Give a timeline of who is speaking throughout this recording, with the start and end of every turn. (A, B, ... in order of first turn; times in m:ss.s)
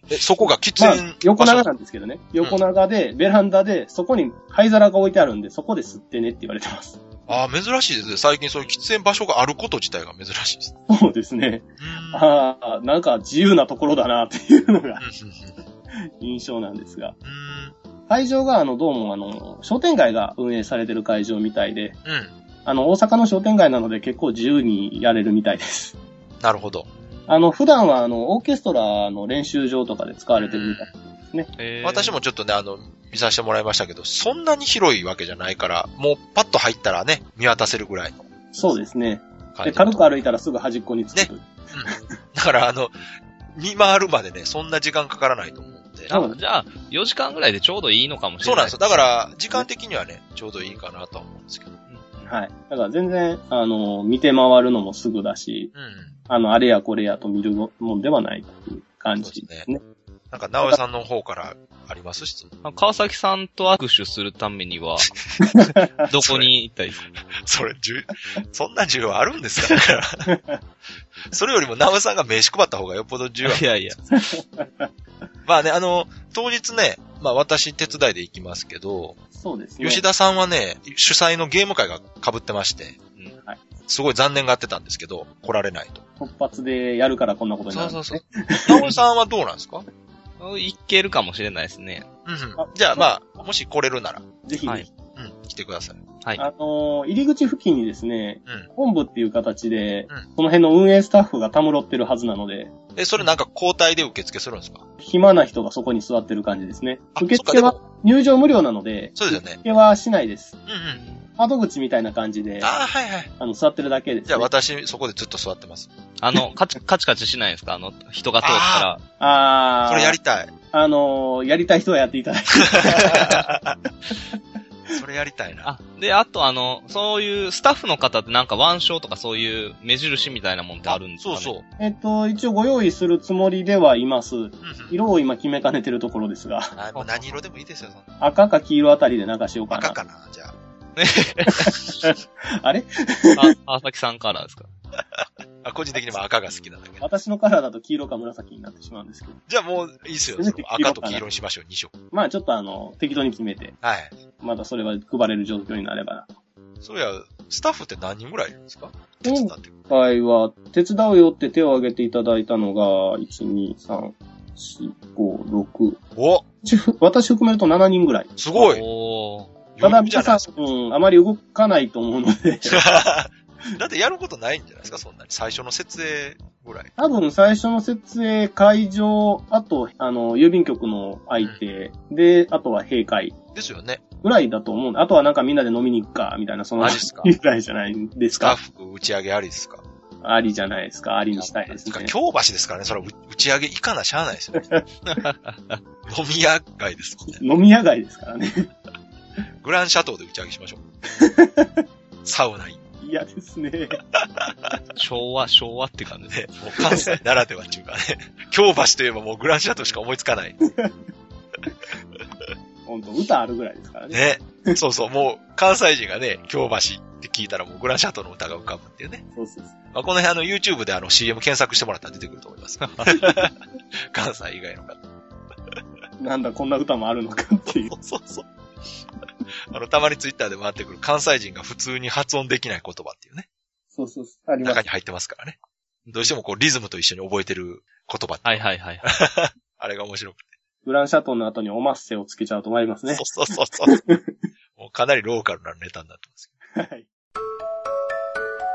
0:00.1-0:01.7 A
0:00.8-0:07.0 B
0:07.3-0:10.7 A
0:10.9-0:15.0 B
0:11.8-0:12.2 A
0:15.0-0:15.6 A
0:15.9-0:17.2 B
0:17.2-0:17.8 A
0:18.1-0:22.0 B
0:22.0-0:22.3 A
0:22.6-0:26.0 B
0:26.4-0:26.9 A
0:26.9-0:27.3 C
0:27.3-0:31.5 B
0:30.4-0:30.9 A
0:31.6-0:32.2 C
0:31.8-0:38.3 A
0:38.5-0:42.0 B
0:39.6-0:40.1 A
0:41.2-0:42.9 A
0:43.6-0:46.1 A
0:46.1-0:49.0 C
0:46.1-0:46.4 B
0:48.4-0:51.8 A
0:51.9-0:52.3 C
0:52.3-0:55.7 B
0:55.8-0:56.1 A
0:56.3-0:59.8 B
0:59.2-0:59.7 A
1:00.3-1:02.5 A
1:02.6-1:05.1 C
1:05.4-1:05.8 B
1:06.1-1:07.0 C
1:06.2-1:06.5 A
1:07.4-1:10.3 A
1:10.3-1:10.6 B
1:11.3-1:13.6 A
1:13.4-1:14.0 C
1:14.1-1:14.9 B
1:15.5-1:19.2 A
1:19.4-1:20.0 B
1:19.8-1:23.0 A
1:23.9-1:26.1 A
1:26.2-1:28.9 B
1:27.7-1:29.9 A
1:30.4-1:32.1 C
1:32.3-1:34.3 A
1:32.6-1:33.1 B
1:34.4-1:34.9 B
1:35.2-1:36.0 A
1:36.4-1:42.7 B
1:43.0-1:44.8 A
1:45.0-1:50.6 B
1:47.2-1:47.8 A
1:49.2-1:49.6 A
1:50.7-1:51.0 A
1:50.9-1:51.3 C
1:51.4-1:52.7 B
1:52.6-1:53.3 A
1:53.4-1:54.5 B
1:54.3-1:55.9 A
1:56.2-1:59.0 C
1:58.4-1:58.9 A
1:59.2-2:00.2 B
1:59.9-2:00.5 A
2:00.7-2:03.4 B
2:02.6-2:03.8 A
2:04.9-2:05.7 A
2:05.6-2:11.5 C
2:10.9-2:11.7 A
2:11.8-2:16.8 B
2:14.6-2:15.0 A
2:16.8-2:18.1 A
2:17.0-2:17.2 C
2:18.2-2:20.0 B
2:19.7-2:20.6 A
2:21.0-2:21.8 C
2:22.0-2:23.5 B
2:23.4-2:24.7 C
2:25.2-2:27.1 A
2:27.0-2:29.4 B
2:29.5-2:31.9 A
2:30.4-2:31.2 B
2:32.1-2:33.8 B
2:33.8-2:34.2 A
2:34.4-2:36.3 B
2:36.8-2:39.7 A
2:39.2-2:46.0 B
2:46.2-2:46.4 A
2:46.6-2:48.4 B
2:48.4-2:48.8 A
2:48.6-2:49.5 C
2:49.8-2:50.5 A
2:49.8-2:52.8 B
2:52.7-2:56.9 A
2:57.0-3:03.4 B
3:03.5-3:04.0 A
3:04.2-3:08.6 B
3:06.8-3:07.4 A
3:08.4-3:09.8 A
3:10.2-3:12.1 B
3:11.4-3:14.7 A
3:15.1-3:15.8 C
3:16.1-3:17.4 A
3:17.3-3:18.7 B
3:19.6-3:20.8 A
3:21.2-3:21.8 B
3:22.2-3:22.8 A
3:23.0-3:24.0 B
3:24.1-3:24.5 A
3:25.0-3:26.6 C
3:26.3-3:30.6 A
3:32.9-3:34.7 B
3:34.1-3:39.2 A
3:39.4-3:39.8 B
3:39.9-3:43.6 A
3:42.8-3:43.2 C
3:44.1-3:45.0 A
3:46.2-3:47.9 B
3:47.8-3:48.5 A
3:49.7-3:53.5 A
3:53.9-3:54.8 B
3:54.6-3:55.6 A
3:56.1-4:00.4 A
3:58.4-3:59.1 C
4:00.8-4:03.3 B
4:03.1-4:04.0 A
4:03.9-4:04.2 B
4:04.8-4:06.5 A
4:06.8-4:07.1 B